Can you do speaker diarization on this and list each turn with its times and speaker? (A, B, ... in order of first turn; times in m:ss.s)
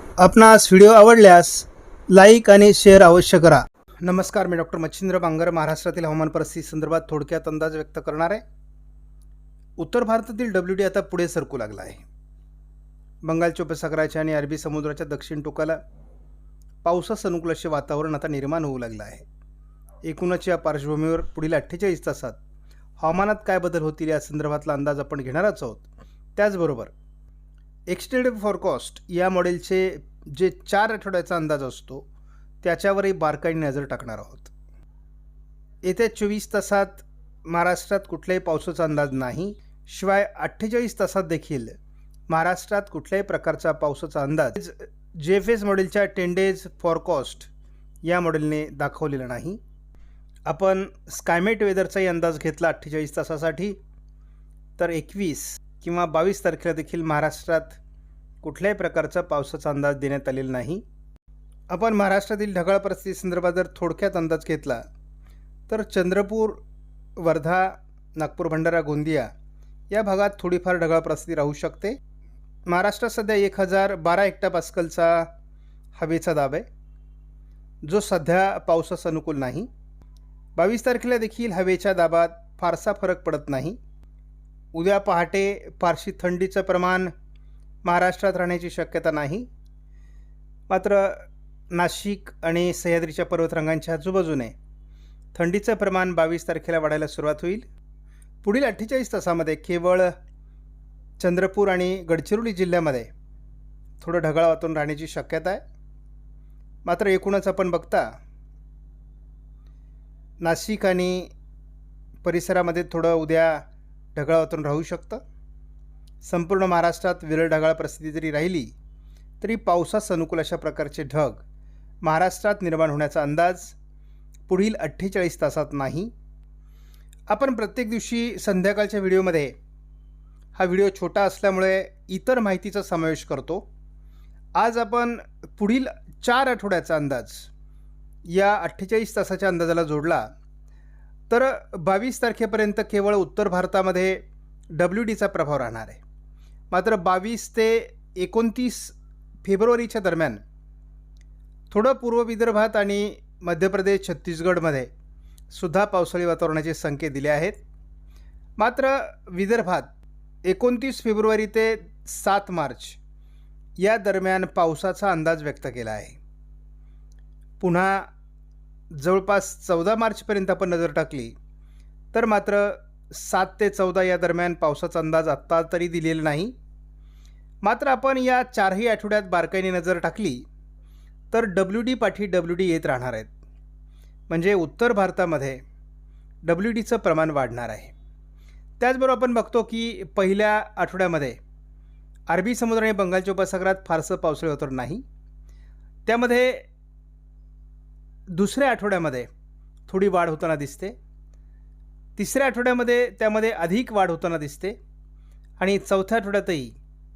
0:00.2-0:08.4 A
0:09.8-0:12.0 A
0:13.2-0:15.8 A
0:16.8-0:19.2 A
0:20.0-0:22.4 A
0:23.0-0:25.8 A
0:26.4-0:26.9 A
0:27.9-0:32.0 A
0:32.6-0:34.5 A
0:35.8-0:41.7 A
0:42.3-0:47.5 A
0:48.0-0:49.6 A
0:50.4-0:53.8 A
0:54.8-0:57.8 A
0:58.4-1:00.8 A
1:01.7-1:04.8 A
1:05.7-1:06.6 A
1:07.2-1:09.3 A
1:09.9-1:12.0 A
1:12.7-1:15.3 A
1:16.0-1:16.6 A
1:17.8-1:19.7 A
1:20.6-1:23.8 A
1:24.7-1:27.1 A
1:27.8-1:29.5 A
1:30.7-1:34.5 A
1:35.3-1:37.6 A
1:38.4-1:40.1 A
1:41.2-1:43.1 A
1:44.0-1:45.6 A
1:46.8-1:48.1 A
1:50.4-1:51.3 A
1:52.2-1:55.2 A
1:56.2-1:58.7 A
1:59.4-2:01.4 A
2:02.0-2:03.8 A
2:04.5-2:06.1 A
2:07.3-2:09.6 A
2:10.5-2:13.6 A
2:14.5-2:17.5 A
2:18.2-2:20.3 A
2:21.3-2:26.0 A
2:26.7-2:30.4 A
2:31.7-2:34.9 A
2:35.5-2:37.6 A
2:38.6-2:39.9 A
2:40.4-2:43.0 A
2:43.8-2:46.2 A
2:47.6-2:48.1 A
2:48.9-2:51.3 A
2:52.1-2:56.5 A
2:57.6-3:00.4 A
3:01.3-3:03.3 A
3:04.3-3:05.6 A
3:06.4-3:07.9 A
3:08.8-3:11.4 A
3:12.3-3:15.0 A
3:16.0-3:16.7 A
3:18.3-3:19.3 A
3:19.9-3:20.9 A
3:22.2-3:24.8 A
3:25.6-3:26.7 A